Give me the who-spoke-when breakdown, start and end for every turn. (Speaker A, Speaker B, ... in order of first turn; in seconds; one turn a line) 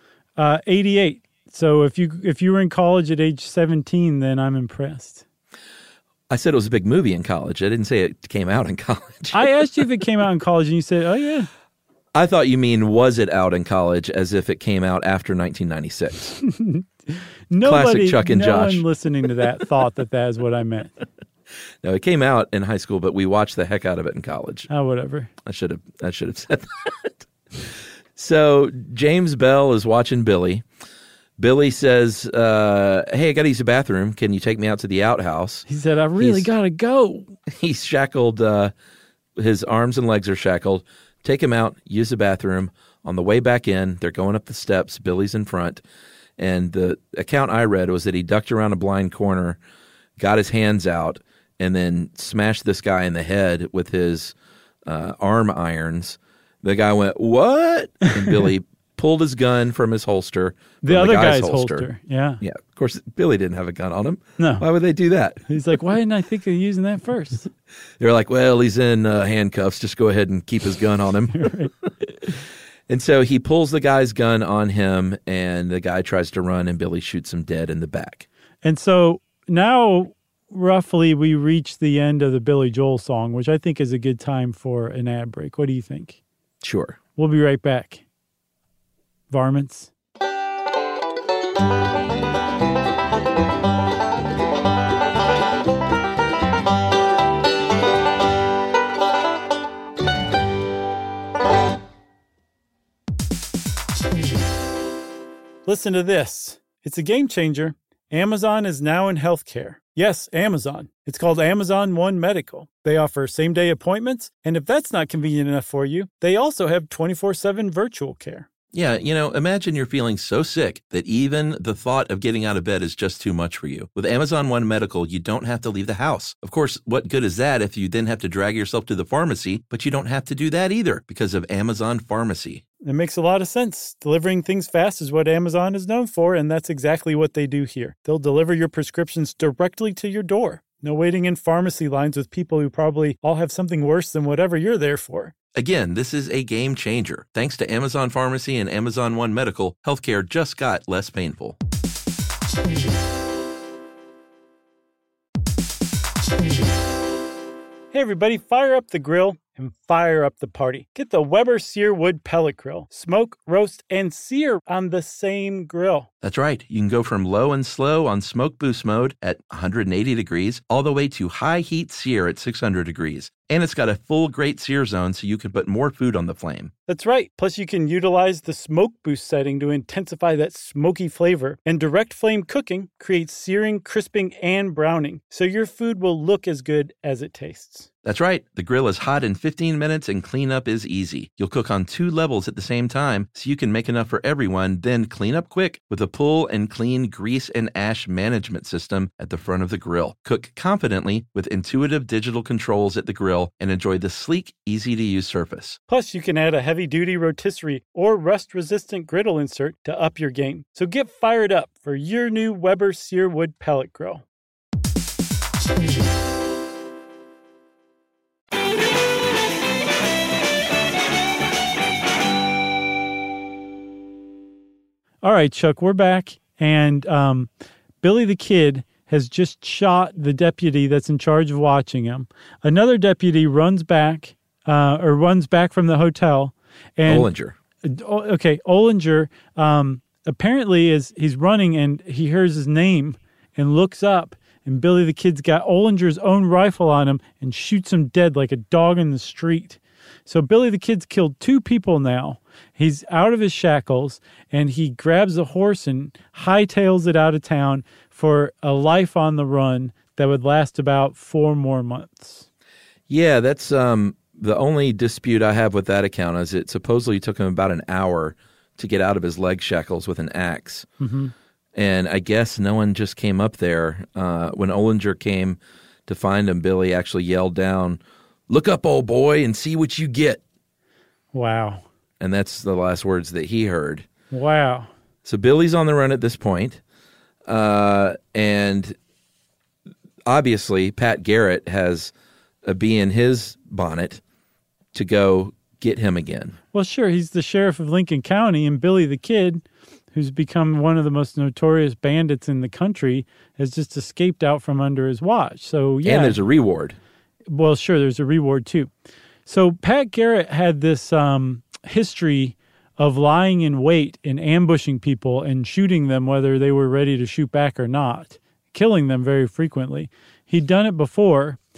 Speaker A: 0.4-5.2
Speaker B: 6.3-9.5
Speaker A: 9.3-11.5
Speaker B: 12.1-16.4
Speaker A: 16.4-21.0
Speaker B: 17.6-18.8
Speaker B: 21.8-24.7
Speaker A: 24.7-25.3
Speaker B: 25.4-27.2
Speaker B: 28.1-30.6
Speaker B: 31.4-35.6
Speaker A: 35.7-37.3
Speaker B: 36.2-36.5
Speaker B: 37.5-38.7
Speaker B: 39.4-45.8
Speaker B: 46.4-49.6
Speaker B: 50.2-54.3
Speaker B: 54.9-61.9
Speaker A: 60.8-62.4
Speaker B: 62.4-65.4
Speaker A: 64.4-64.6
Speaker A: 65.5-67.5
Speaker B: 68.0-71.9
Speaker A: 71.3-71.7
Speaker B: 72.9-78.2
Speaker A: 78.6-86.2
Speaker B: 86.6-87.0
Speaker A: 87.2-88.0
Speaker A: 89.3-89.9
Speaker A: 105.7-118.5
Speaker B: 118.7-132.6
Speaker A: 132.8-145.3
Speaker B: 145.6-151.6
Speaker A: 157.9-166.1
Speaker B: 166.2-176.7
Speaker A: 176.9-187.9
Speaker B: 188.0-205.8
Speaker A: 205.9-214.2
Speaker A: 225.2-227.5
Speaker A: 228.0-237.3
Speaker B: 237.1-237.6
Speaker A: 237.8-262.4
Speaker B: 263.1-270.9
Speaker A: 271.0-271.3
Speaker B: 271.8-280.4
Speaker A: 281.3-281.8
Speaker B: 282.2-284.1
Speaker A: 284.3-284.9
Speaker B: 285.2-286.8
Speaker B: 287.5-288.9
Speaker B: 290.3-292.1
Speaker B: 292.6-294.2
Speaker B: 294.9-296.6
Speaker A: 296.7-306.4
Speaker B: 306.0-307.0
Speaker A: 307.5-308.9
Speaker A: 309.4-321.6